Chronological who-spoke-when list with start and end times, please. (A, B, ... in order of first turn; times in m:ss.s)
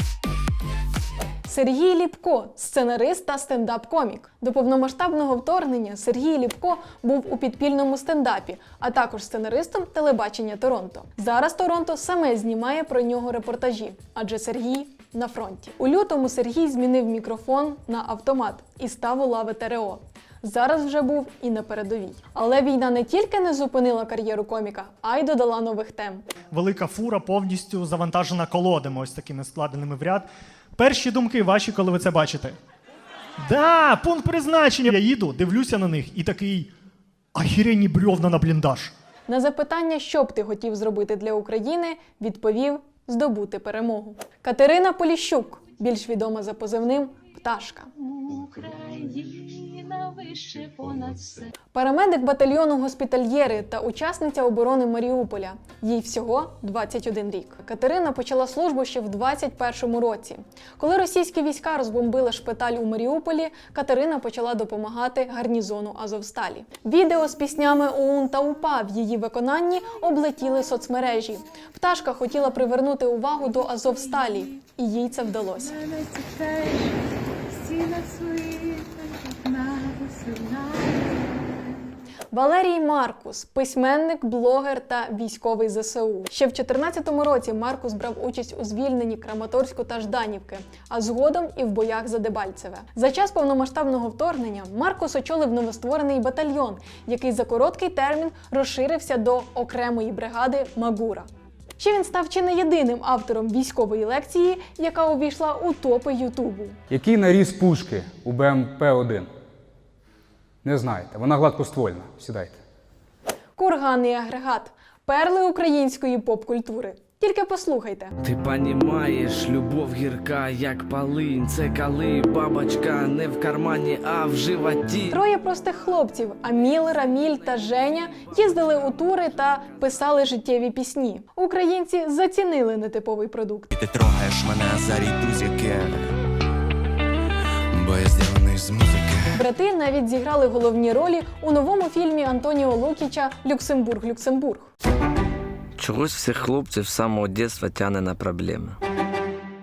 0:01.4-0:26.2 A
0:26.5-0:32.6 B
0:33.4-0:36.7 B
0:37.4-0:38.9 B
0:39.3-0:48.1 A
0:48.2-0:51.5 C
0:51.7-1:15.8 A
1:15.8-1:21.4 C
1:22.3-1:46.8 A
1:46.9-1:49.3 D
1:50.6-1:52.6 D
1:53.6-1:58.1 A
1:58.2-2:05.2 E
2:05.1-2:13.7 A
2:13.7-2:16.1 F
2:17.7-2:19.4 F
2:19.4-2:24.7 A
2:25.8-2:28.8 E